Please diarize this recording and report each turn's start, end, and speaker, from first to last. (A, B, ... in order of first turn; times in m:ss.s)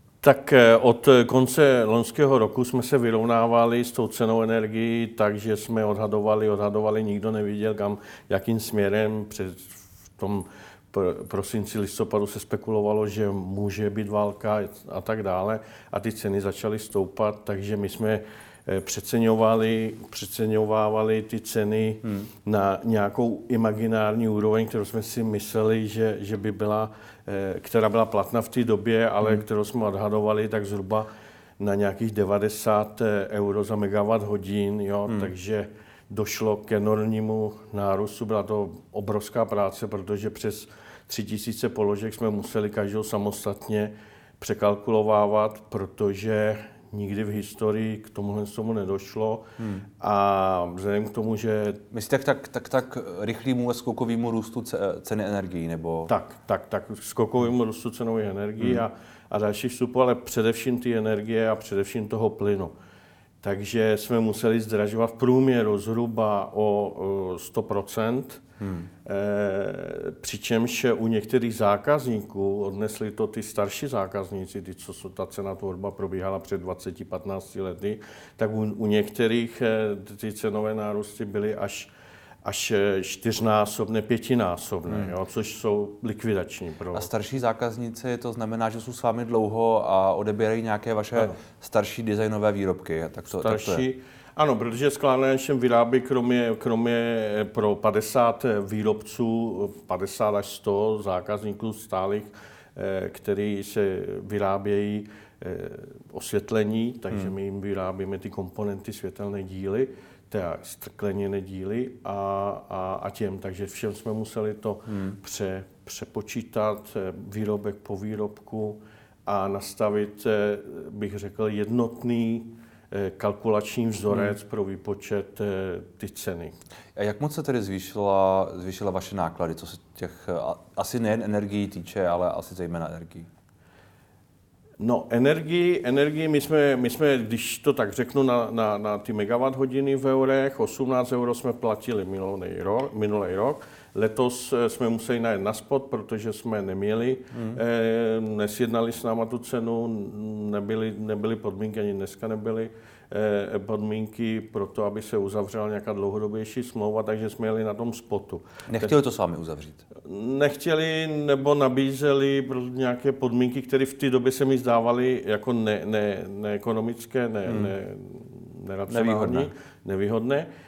0:00.2-0:31.1 A
0:31.6-0:49.5 A
0:49.6-0:49.9 B
0:50.0-0:51.8 A
0:51.9-0:56.1 B
0:56.1-1:02.7 A
1:03.4-1:08.4 A
1:08.6-1:08.9 B
1:09.0-1:21.9 A
1:22.4-1:27.1 A
1:26.9-1:33.8 B
1:33.4-2:06.6 A
2:07.0-2:13.3 B
2:14.8-2:39.0 A
2:38.7-2:39.8 B
2:40.0-2:50.5 A
2:47.5-2:47.7 B
2:48.9-2:49.5 B